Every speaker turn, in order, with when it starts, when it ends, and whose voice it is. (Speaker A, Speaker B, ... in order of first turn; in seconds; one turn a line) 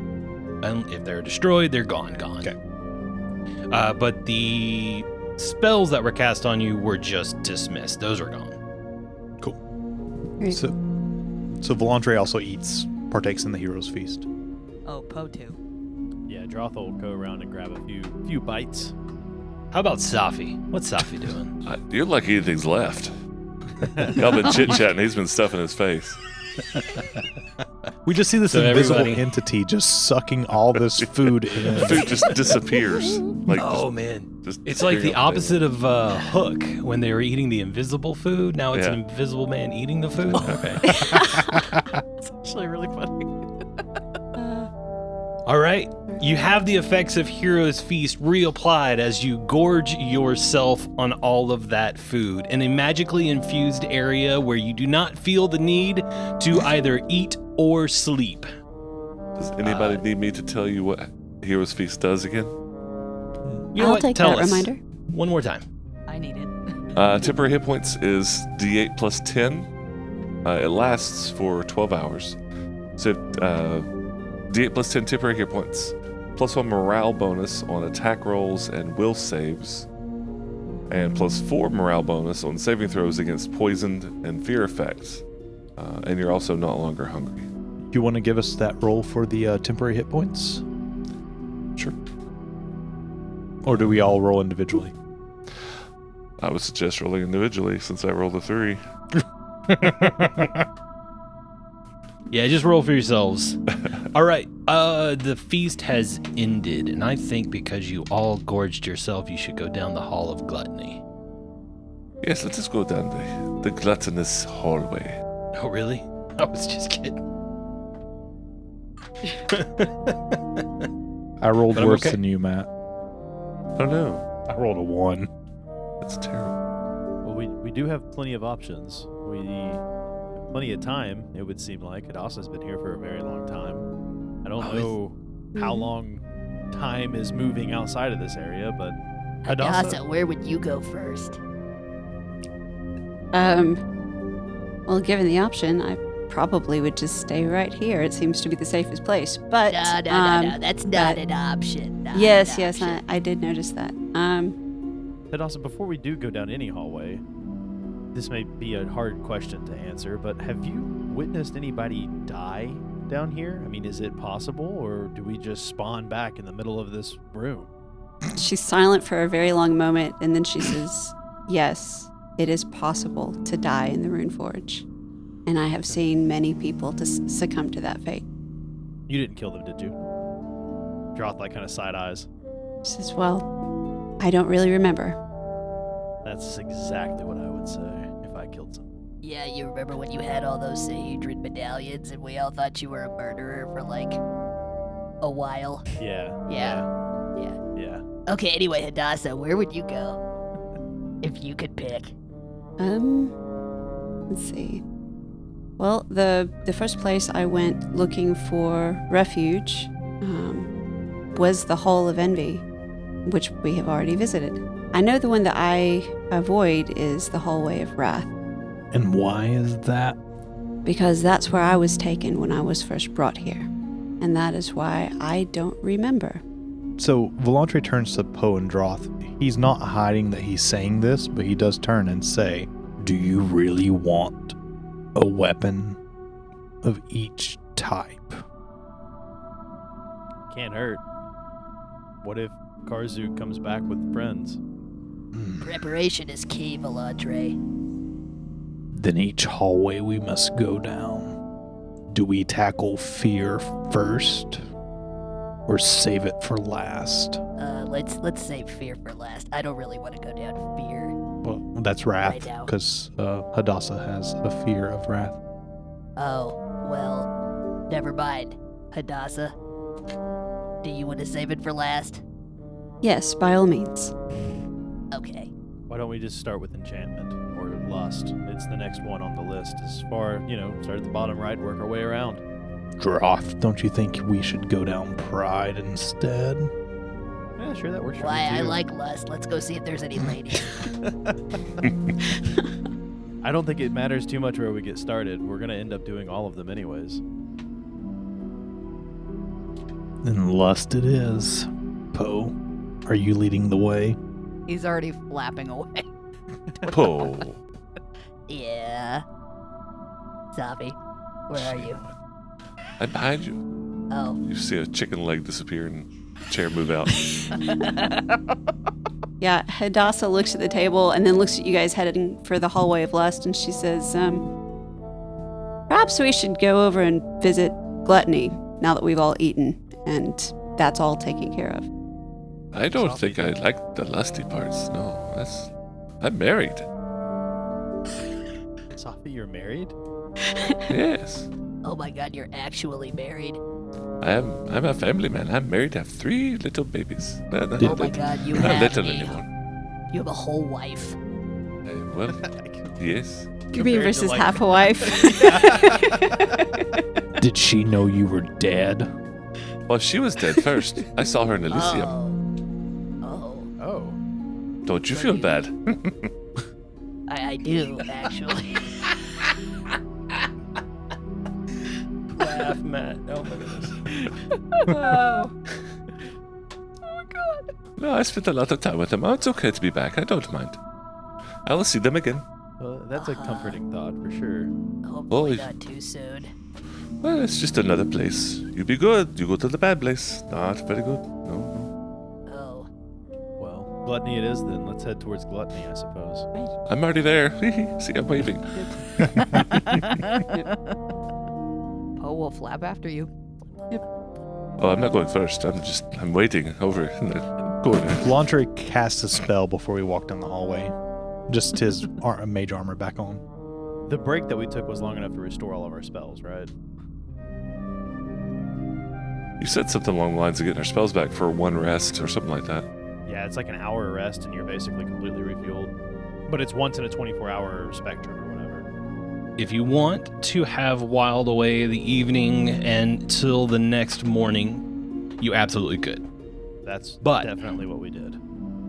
Speaker A: 0.6-2.5
Speaker A: 3.7-8.6
Speaker B: 10.5-10.8
Speaker B: 11.5-14.2
Speaker C: 14.8-15.6
Speaker D: 16.3-18.9
Speaker A: 19.7-21.5
Speaker E: 21.6-23.1
Speaker D: 23.9-24.2
Speaker E: 24.1-26.2
Speaker B: 28.0-32.3
Speaker A: 28.4-29.2
Speaker E: 31.6-35.6
Speaker A: 31.7-32.5
Speaker A: 33.4-41.0
Speaker E: 38.7-39.0
Speaker E: 40.3-41.0
Speaker C: 40.8-43.3
Speaker F: 44.4-44.7
Speaker A: 45.5-58.5
Speaker E: 59.4-62.5
Speaker A: 59.6-60.0
Speaker A: 63.7-65.7
Speaker F: 63.8-64.8
Speaker C: 66.1-66.9
Speaker E: 66.9-69.7
Speaker E: 70.4-72.4
Speaker E: 73.0-73.9
Speaker E: 74.5-79.9
Speaker E: 80.9-85.2
Speaker E: 85.8-87.5
Speaker B: 87.9-90.6
Speaker B: 93.6-94.9
Speaker E: 96.4-98.8
Speaker B: 99.7-100.5
Speaker A: 102.3-111.0
Speaker E: 112.2-115.2
Speaker A: 115.5-117.2
Speaker A: 119.5-120.6
Speaker B: 121.4-122.7
Speaker A: 121.7-122.2
Speaker E: 123.8-124.2
Speaker B: 124.5-125.3
Speaker E: 126.0-126.5
Speaker D: 127.2-129.8
Speaker D: 130.4-133.8
Speaker D: 134.4-140.0
Speaker F: 135.5-135.9
Speaker G: 139.4-141.4
Speaker F: 143.3-143.8
Speaker F: 144.9-151.2
Speaker G: 149.7-153.0
Speaker F: 152.1-154.6
Speaker D: 155.3-157.2
Speaker D: 158.1-167.7
Speaker F: 168.3-174.8
Speaker F: 175.4-178.2
Speaker D: 179.1-179.9
Speaker D: 181.1-182.3
Speaker F: 182.8-183.5
Speaker F: 184.2-185.2
Speaker D: 186.2-188.9
Speaker G: 189.2-194.2
Speaker G: 195.2-195.8
Speaker D: 196.0-196.9
Speaker G: 196.5-196.8
Speaker D: 197.8-198.0
Speaker G: 198.3-200.2
Speaker G: 201.2-202.1
Speaker F: 202.8-203.3
Speaker F: 204.3-204.8
Speaker F: 205.8-210.7
Speaker F: 211.3-212.6
Speaker F: 213.2-218.3
Speaker B: 218.9-220.2
Speaker F: 220.8-223.7
Speaker F: 224.2-226.4
Speaker B: 227.0-234.6
Speaker B: 235.1-236.0
Speaker B: 236.8-238.4
Speaker D: 240.5-241.0
Speaker D: 242.2-244.6
Speaker B: 245.3-245.7
Speaker G: 245.6-247.6
Speaker B: 248.9-251.4
Speaker B: 252.1-254.6
Speaker B: 255.7-257.4
Speaker G: 257.6-261.1
Speaker B: 261.4-265.4
Speaker G: 262.2-262.7
Speaker G: 266.2-267.3
Speaker G: 267.9-269.5
Speaker G: 270.8-272.2
Speaker F: 273.0-274.1
Speaker G: 275.1-275.5
Speaker D: 275.9-282.4
Speaker B: 283.0-286.7
Speaker D: 287.6-288.8
Speaker G: 288.2-290.8
Speaker D: 293.4-297.2
Speaker B: 300.2-302.5
Speaker B: 303.1-304.2
Speaker C: 304.7-306.1
Speaker E: 306.9-307.6
Speaker G: 308.5-309.2
Speaker G: 310.5-311.0
Speaker G: 311.5-312.0
Speaker E: 311.5-312.1
Speaker E: 313.0-313.6
Speaker G: 314.1-314.4
Speaker E: 314.4-317.3
Speaker F: 319.4-324.5
Speaker F: 325.9-331.9
Speaker E: 332.7-336.9
Speaker D: 332.9-333.6
Speaker D: 338.9-339.9
Speaker E: 340.9-341.5
Speaker G: 341.8-343.6
Speaker E: 344.2-349.5
Speaker B: 347.8-348.1
Speaker G: 347.8-349.4
Speaker G: 350.1-351.2
Speaker E: 351.8-352.4
Speaker D: 352.3-353.0
Speaker E: 353.0-353.5
Speaker D: 353.7-356.6
Speaker F: 353.7-356.6
Speaker B: 357.4-359.1
Speaker E: 359.9-362.1
Speaker G: 361.7-362.4
Speaker G: 363.2-363.7
Speaker D: 363.8-364.2
Speaker E: 364.8-366.3
Speaker G: 365.1-365.5
Speaker G: 367.3-369.0
Speaker A: 372.4-374.0
Speaker C: 374.9-375.2
Speaker C: 377.3-377.6
Speaker E: 378.0-380.8
Speaker E: 381.6-382.4
Speaker D: 382.8-384.7
Speaker G: 383.1-383.8
Speaker G: 385.0-386.5
Speaker E: 385.3-385.7
Speaker E: 387.2-391.9
Speaker G: 392.5-392.9
Speaker D: 393.6-396.5
Speaker E: 396.9-400.2
Speaker C: 399.6-400.9
Speaker C: 402.2-403.3
Speaker E: 404.8-408.3
Speaker B: 408.1-410.9
Speaker B: 411.5-413.4
Speaker D: 414.1-416.7
Speaker E: 419.6-422.9
Speaker D: 423.2-425.9
Speaker D: 426.5-428.9
Speaker A: 429.6-434.8
Speaker A: 435.4-436.2
Speaker D: 436.8-438.4
Speaker A: 437.2-437.5